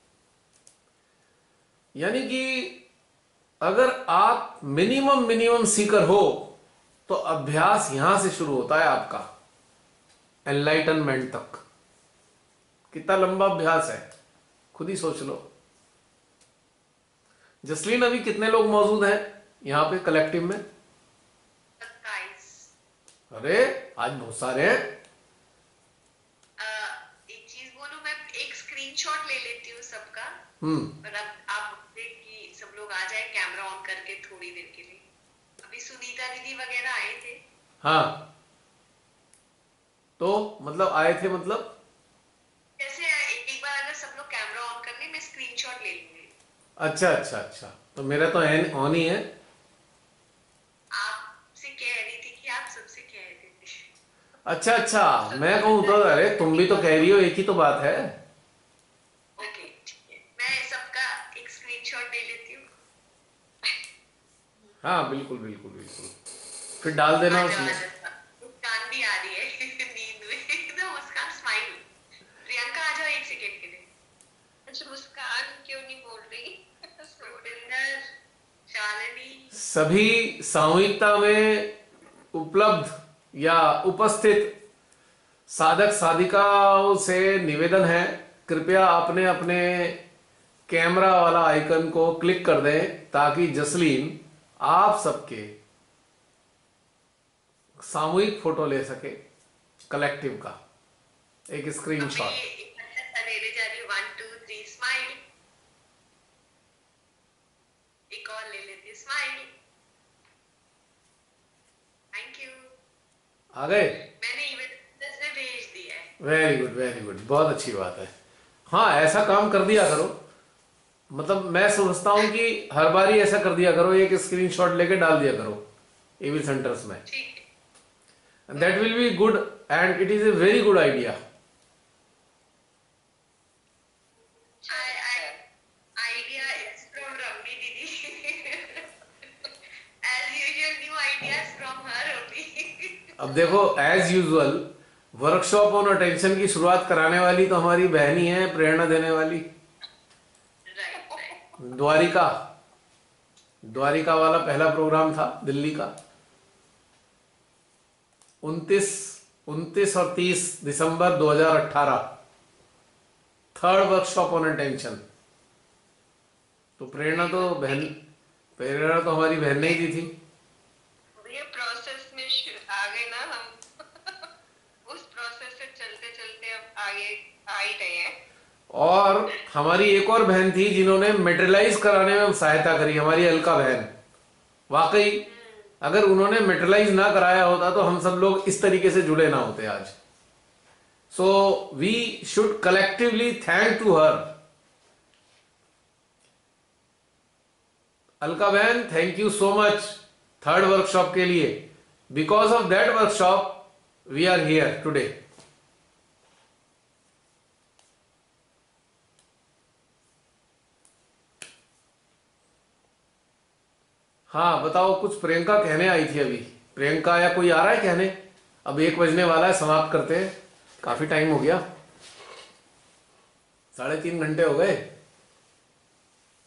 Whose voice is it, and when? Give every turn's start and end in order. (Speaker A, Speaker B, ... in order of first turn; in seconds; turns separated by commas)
Speaker A: 1.9-2.8, Speaker A: 3.6-6.5, Speaker A: 7.1-9.3, Speaker A: 10.5-11.6, Speaker A: 12.9-14.1, Speaker A: 14.7-15.4, Speaker A: 17.6-20.6, Speaker B: 21.8-22.7, Speaker A: 23.3-24.9, Speaker B: 26.6-30.4, Speaker A: 30.6-30.9, Speaker B: 31.0-35.0, Speaker B: 35.6-37.4, Speaker A: 37.8-38.2, Speaker A: 40.2-41.7, Speaker B: 42.8-46.3, Speaker A: 46.8-49.3, Speaker B: 51.0-53.9, Speaker A: 54.5-58.2, Speaker C: 55.4-57.0, Speaker B: 59.4-62.7, Speaker A: 64.8-66.2, Speaker A: 66.8-67.8, Speaker B: 67.3-71.9, Speaker B: 72.4-73.9, Speaker C: 74.7-77.7, Speaker B: 77.2-78.0, Speaker B: 78.7-79.5, Speaker A: 79.5-81.7, Speaker A: 82.3-84.5, Speaker A: 85.5-90.0, Speaker A: 90.7-95.5, Speaker A: 97.8-99.2, Speaker A: 99.9-100.6, Speaker A: 101.5-102.4, Speaker B: 102.0-105.2, Speaker B: 108.1-109.5, Speaker B: 112.1-112.7, Speaker A: 113.5-114.0, Speaker B: 114.1-116.1, Speaker A: 116.2-118.1, Speaker A: 118.7-120.2, Speaker A: 121.1-125.6, Speaker A: 126.2-127.0, Speaker B: 127.1-127.5, Speaker A: 128.5-131.2, Speaker C: 134.6-135.4, Speaker B: 134.7-135.3, Speaker B: 136.0-138.9, Speaker C: 136.3-136.6, Speaker B: 140.0-143.6, Speaker A: 143.2-149.5, Speaker B: 150.7-151.4, Speaker C: 151.1-151.4, Speaker A: 151.6-152.3, Speaker A: 153.6-155.9, Speaker A: 158.4-162.0, Speaker A: 163.6-165.0, Speaker A: 166.8-167.9, Speaker C: 167.1-167.8, Speaker A: 168.6-170.1, Speaker C: 171.2-174.3, Speaker C: 174.9-178.1, Speaker A: 178.7-183.9, Speaker A: 184.7-185.2, Speaker B: 185.3-185.7, Speaker A: 185.8-189.9, Speaker A: 191.1-194.3, Speaker A: 198.2-205.2, Speaker A: 214.3-221.6, Speaker A: 223.8-224.8